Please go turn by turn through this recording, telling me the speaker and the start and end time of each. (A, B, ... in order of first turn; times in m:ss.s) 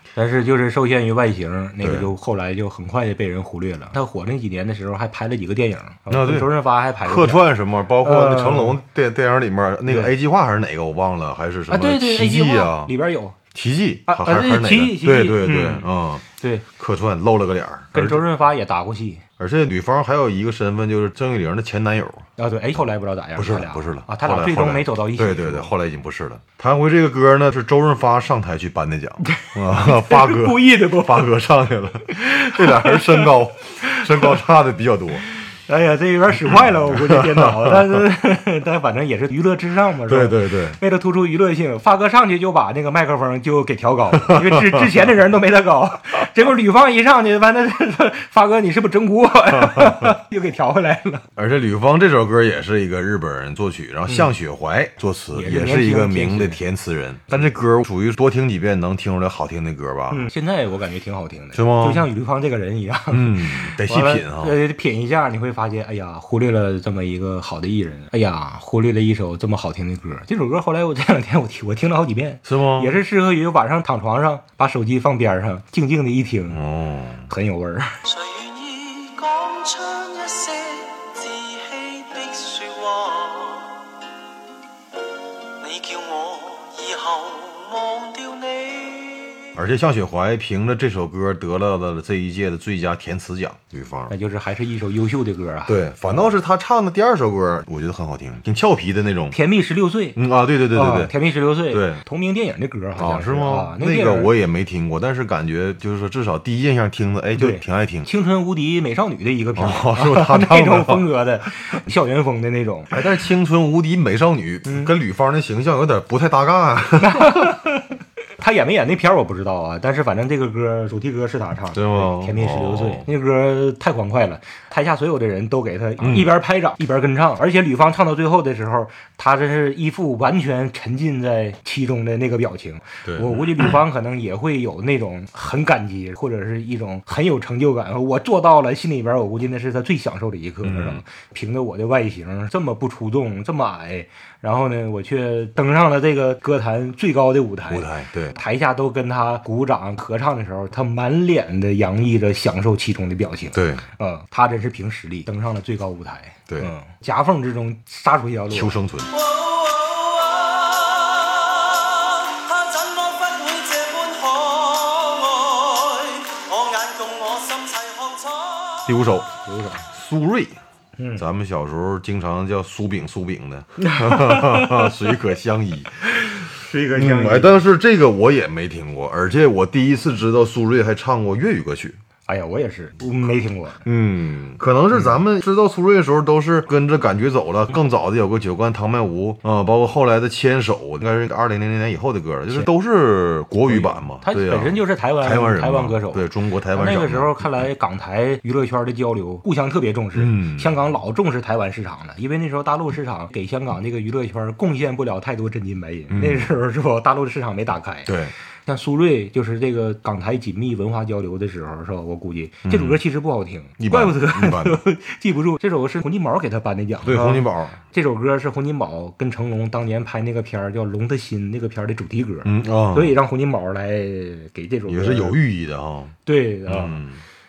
0:00.2-0:07.5 A
0:01.8-0:02.1 B
0:06.1-0:06.5 B
0:07.0-0:12.9 B
0:08.0-0:08.8 A
0:11.7-0:13.4 A
0:13.5-0:16.3 B
0:14.1-0:16.6 A
0:16.8-0:18.2 B
0:17.9-0:19.2 A
0:19.4-0:22.3 B
0:22.4-0:25.7 A
0:23.4-0:35.3 B
0:29.2-0:31.4 A
0:32.1-0:34.4 A
0:35.3-0:51.3 A
0:36.6-0:37.8 B
0:40.1-0:40.8 B
0:44.2-0:44.8 B
0:49.6-0:50.1 B
0:51.4-1:00.3 B
0:55.3-0:56.6 A
1:00.1-1:16.6 A
1:01.5-1:02.1 B
1:03.1-1:04.5 B
1:12.4-1:12.9 B
1:16.5-1:17.3 B
1:17.3-1:18.0 A
1:18.0-1:23.8 C
1:25.6-1:29.6 C
1:29.6-1:34.1 B
1:34.1-1:36.2 A
1:35.7-1:39.4 B
1:39.3-1:40.2 A
1:40.2-1:41.1 B
1:40.7-1:44.3 A
1:41.7-1:42.0 B
1:43.0-1:48.1 B
1:47.4-1:53.0 A
1:49.6-1:51.0 B
1:52.9-1:57.5 B
1:54.7-1:54.9 A
1:57.0-2:38.8 A
2:01.7-2:03.1 B
2:06.0-2:06.3 B
2:13.0-2:13.5 B
2:20.6-2:21.0 B
2:27.7-2:28.3 B
2:33.5-2:33.9 B
2:38.5-2:39.1 B
2:39.1-2:48.9 C
2:48.9-2:49.3 B
2:49.4-2:49.8 A
2:49.9-2:50.6 B
2:51.0-2:51.2 A
2:51.2-2:56.0 B
2:53.8-2:55.0 A
2:56.1-2:57.6 A
2:56.9-3:02.0 B
3:02.3-3:03.8 A
3:03.8-3:17.6 B
3:13.7-3:28.2 A
3:20.2-3:20.7 B
3:26.1-3:26.5 B
3:28.1-3:28.3 B
3:28.7-3:45.4 A
3:32.6-3:33.0 B
3:33.8-3:34.8 B
3:37.0-3:37.8 B
3:42.4-3:43.2 B
3:44.9-3:46.2 B
3:46.3-3:47.0 A
3:46.7-3:47.2 B